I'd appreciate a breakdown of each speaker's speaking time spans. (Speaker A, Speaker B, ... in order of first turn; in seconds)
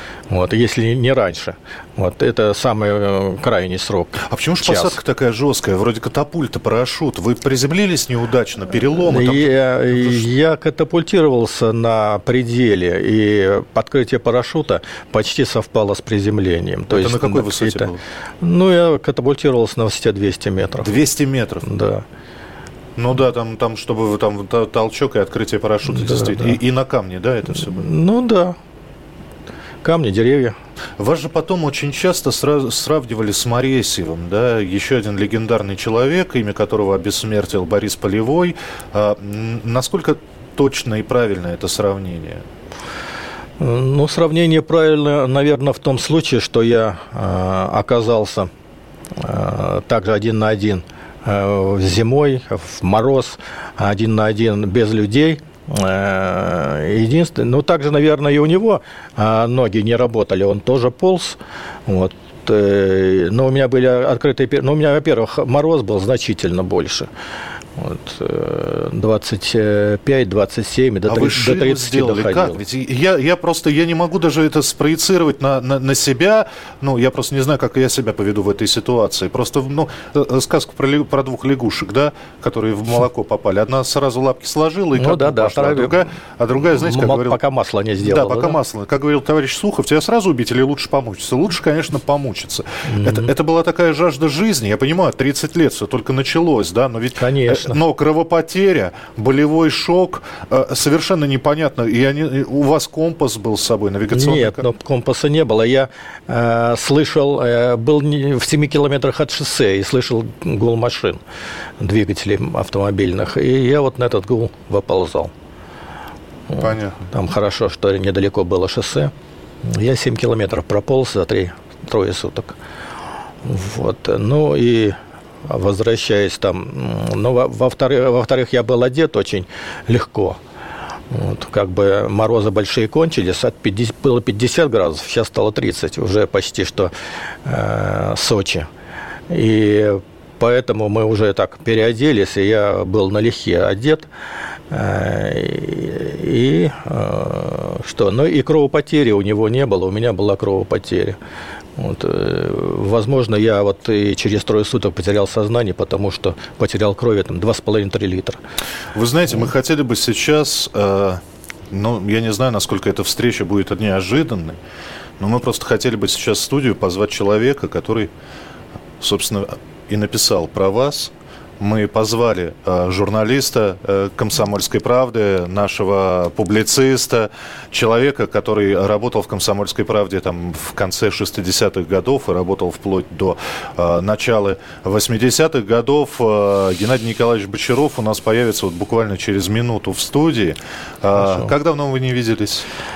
Speaker A: 0.3-5.0, 9.1-20.9, 21.6-22.0, 25.9-26.6, 27.5-28.6, 29.8-30.6, 43.6-48.5, 49.1-67.1, 67.8-72.6, 85.0-86.0, 86.8-88.6, 92.9-93.3, 97.2-97.8, 104.1-111.2, 111.8-115.3, 116.6-119.1, 119.6-122.6, 123.5-130.4, 131.1-136.9, 137.4-138.7, 139.3-144.1, 144.7-151.2, 151.8-158.4, 191.2-191.5
Speaker B: 4.2-10.2, 16.9-18.0, 20.8-21.7, 23.0-27.9, 31.0-42.4, 71.1-87.4, 88.0-104.6, 116.6-117.0, 158.9-164.6, 165.2-168.1, 169.0-192.7